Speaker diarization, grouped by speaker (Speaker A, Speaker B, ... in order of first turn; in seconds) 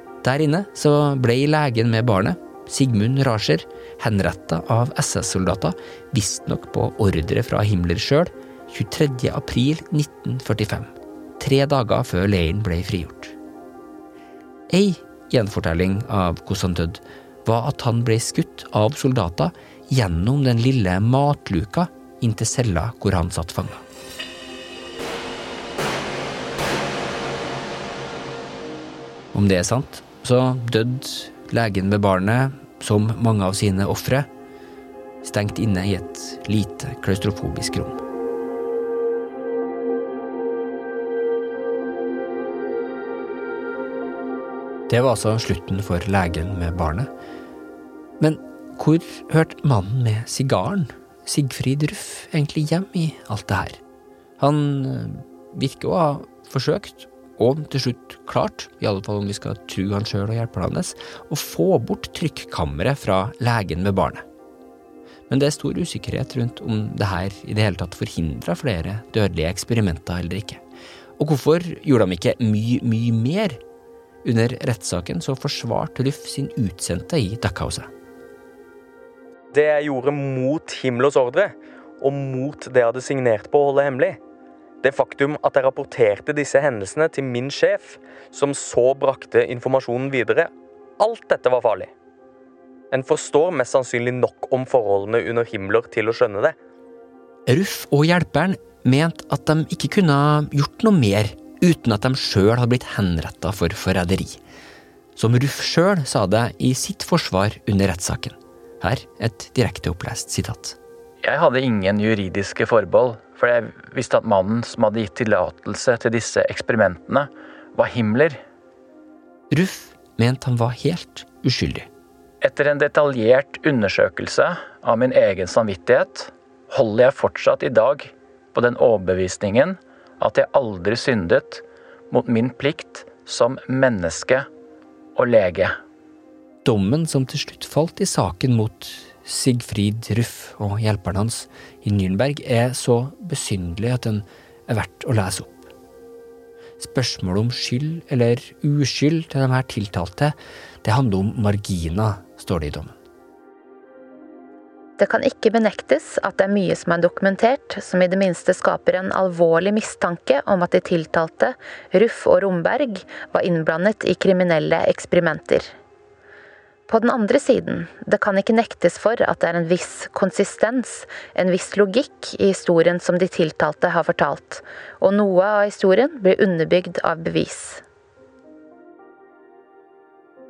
Speaker A: 0.2-13.3, 14.7-23.8, 29.3-34.3, 35.2-38.0, 44.9-47.1, 48.2-53.8, 54.4-64.2, 65.3-70.6, 71.2-73.6, 74.2-77.9, 97.5-104.4, 105.2-110.8, 119.5-121.9, 136.6-145.7, 146.8-152.9
Speaker B: 79.5-84.2, 84.8-91.9, 92.9-96.5
Speaker C: 111.2-118.4, 122.4-134.5, 135.2-135.8
Speaker D: 155.0-165.7, 166.9-177.8